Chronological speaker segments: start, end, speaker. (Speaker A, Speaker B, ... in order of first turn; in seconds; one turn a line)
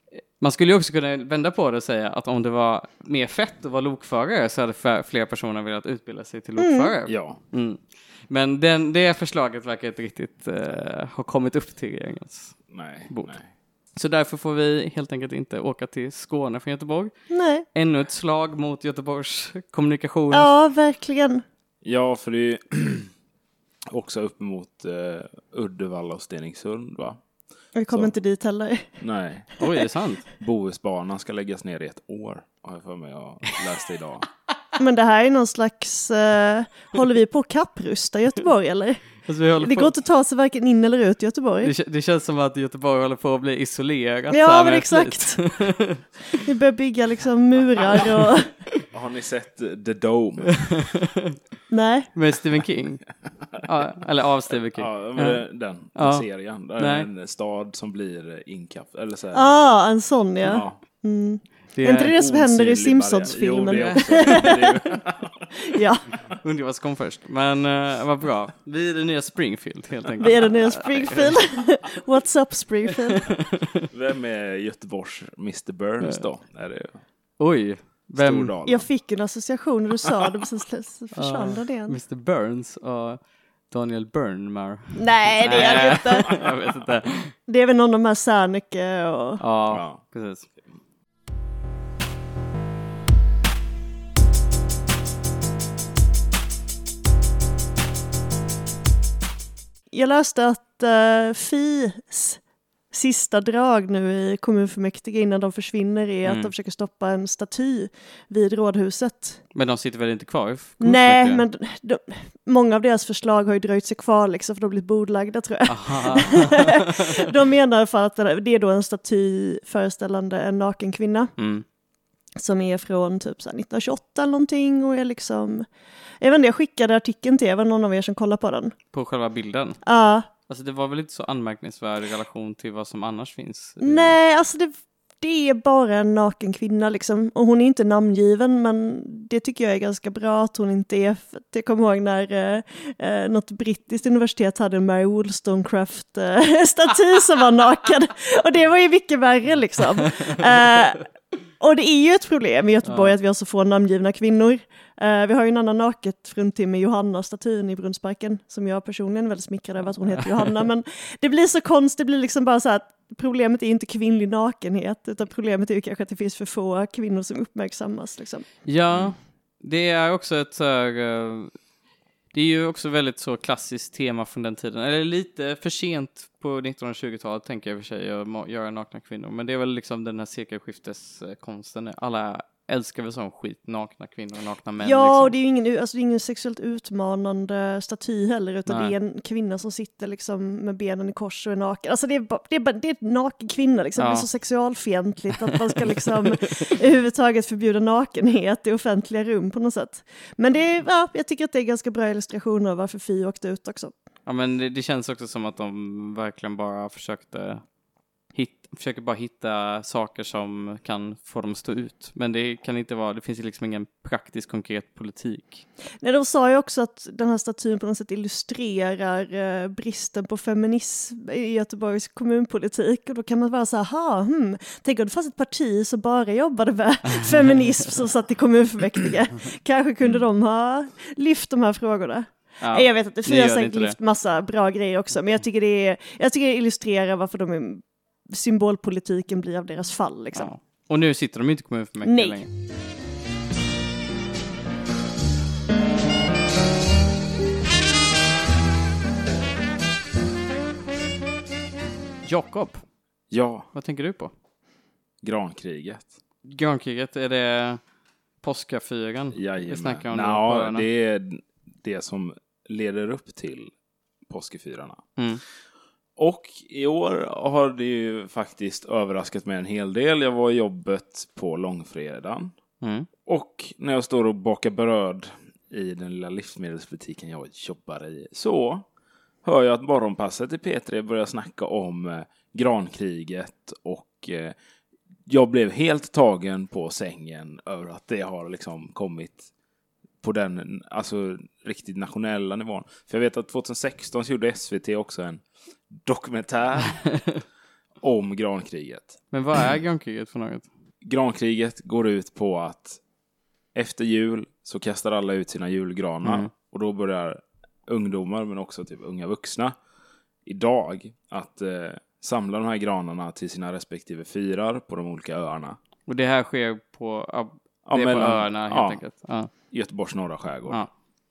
Speaker A: 0.4-13.3
Speaker B: 6.6-6.9
Speaker C: 7.1-7.4
Speaker C: 12.7-13.5
Speaker A: 14.0-17.1
Speaker B: 17.3-17.6
Speaker A: 17.7-20.5
Speaker B: 20.3-21.4
Speaker C: 21.8-23.1
Speaker C: 23.9-27.2
Speaker B: 27.8-28.9
Speaker C: 29.0-29.6
Speaker A: 29.6-30.2
Speaker C: 30.4-34.3
Speaker B: 34.8-41.7
Speaker A: 39.3-39.9
Speaker A: 41.6-46.0
Speaker B: 44.3-45.6
Speaker B: 46.4-48.5
Speaker C: 48.9-50.8
Speaker B: 51.7-52.1
Speaker A: 52.1-53.0
Speaker A: 53.6-55.4
Speaker C: 54.7-59.5
Speaker A: 56.0-57.1
Speaker B: 59.3-64.7
Speaker C: 60.5-60.8
Speaker A: 61.8-62.2
Speaker C: 62.0-65.5
Speaker A: 63.7-64.8
Speaker B: 65.7-66.1
Speaker A: 66.4-71.4
Speaker B: 70.2-73.3
Speaker C: 73.9-77.0
Speaker A: 77.4-78.5
Speaker C: 78.1-78.9
Speaker B: 78.7-82.0
Speaker A: 81.2-87.3
Speaker B: 85.0-86.4
Speaker C: 85.5-86.5
Speaker B: 87.5-89.4
Speaker A: 89.4-90.5
Speaker C: 89.7-90.0
Speaker B: 99.9-102.4
Speaker B: 102.9-109.4
Speaker A: 106.2-106.5
Speaker A: 109.5-111.4
Speaker B: 110.8-121.3
Speaker A: 115.7-117.2
Speaker A: 121.4-121.6
Speaker B: 122.4-125.7
Speaker B: 126.2-128.7
Speaker A: 128.9-129.8
Speaker B: 129.8-130.3
Speaker A: 130.5-134.1
Speaker B: 133.8-151.1
Speaker B: 151.6-168.5
Speaker A: 152.8-153.1
Speaker A: 168.7-171.6
Speaker A: 172.3-185.3
Speaker B: 184.8-203.9
Speaker A: 188.7-188.9
Speaker A: 194.0-194.3
Speaker A: 196.0-196.7
Speaker A: 204.3-207.6
Speaker A: 208.3-215.6
Speaker B: 216.0-240.5
Speaker A: 232.6-234.0
Speaker A: 240.3-242.5
Speaker B: 242.0-242.4
Speaker A: 252.2-252.8
Speaker C: 253.3-253.7
Speaker A: 253.7-254.3
Speaker C: 255.2-256.1
Speaker A: 256.4-257.8
Speaker A: 258.4-260.9
Speaker C: 259.3-263.7
Speaker C: 264.3-265.1
Speaker A: 265.2-265.4
Speaker C: 266.2-272.5
Speaker A: 272.8-273.1
Speaker C: 273.3-278.9
Speaker C: 279.4-284.6
Speaker C: 285.3-289.5
Speaker C: 290.2-297.2
Speaker A: 297.1-297.4
Speaker C: 298.0-299.2
Speaker A: 299.3-300.7
Speaker C: 301.0-303.0
Speaker C: 303.7-309.8
Speaker A: 306.2-306.5
Speaker C: 310.4-315.8
Speaker A: 316.1-319.5
Speaker C: 317.9-319.0
Speaker C: 319.6-320.8